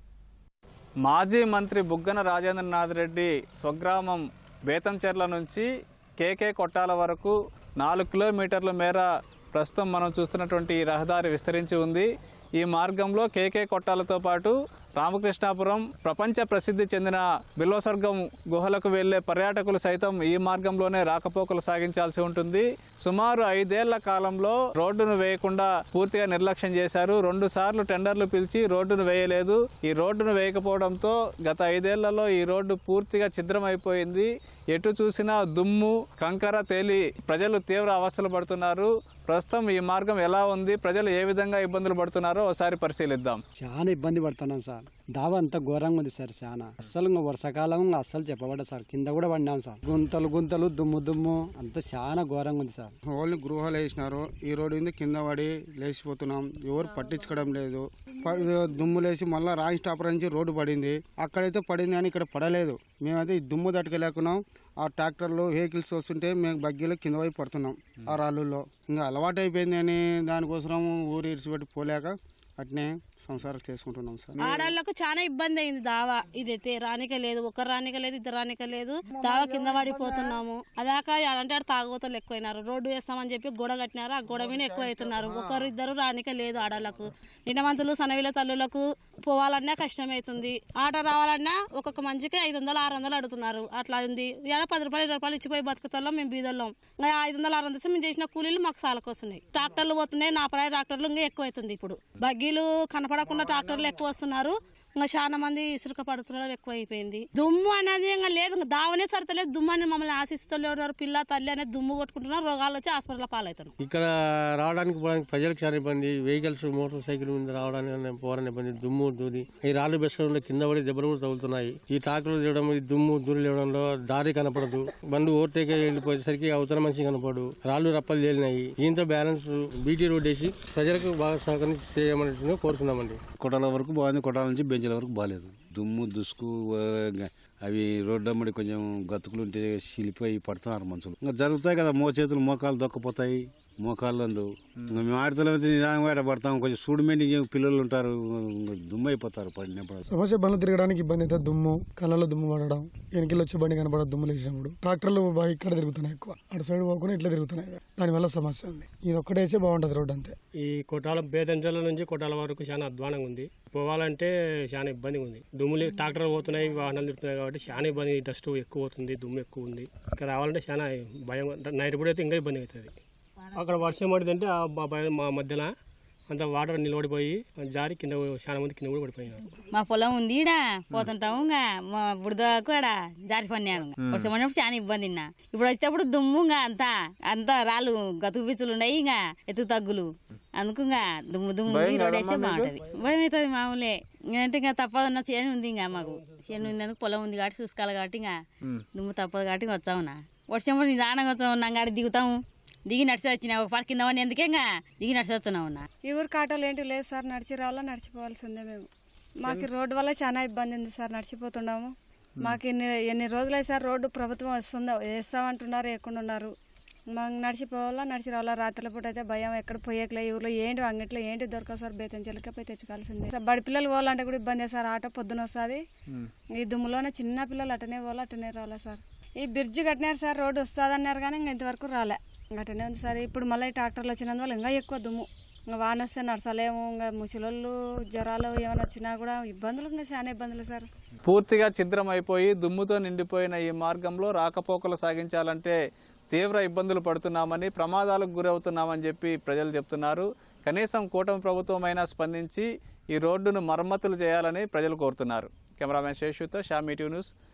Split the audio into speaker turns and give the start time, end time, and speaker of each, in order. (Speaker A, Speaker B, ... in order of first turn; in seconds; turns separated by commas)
Speaker A: 1.0-5.7, Speaker A: 6.2-12.1, Speaker A: 12.6-43.4, Speaker B: 43.6-52.9, Speaker C: 53.1-74.8, Speaker D: 74.4-113.7, Speaker E: 113.8-133.2, Speaker F: 133.4-150.0, Speaker G: 150.1-160.3, Speaker H: 160.6-172.9, Speaker H: 173.5-175.7, Speaker H: 176.3-179.4, Speaker I: 179.7-198.3, Speaker A: 184.0-184.3, Speaker A: 191.7-192.8, Speaker I: 198.9-205.9, Speaker J: 206.1-208.8, Speaker J: 209.5-216.5, Speaker J: 217.1-225.8, Speaker J: 226.6-240.9, Speaker A: 241.2-245.8, Speaker A: 246.3-257.3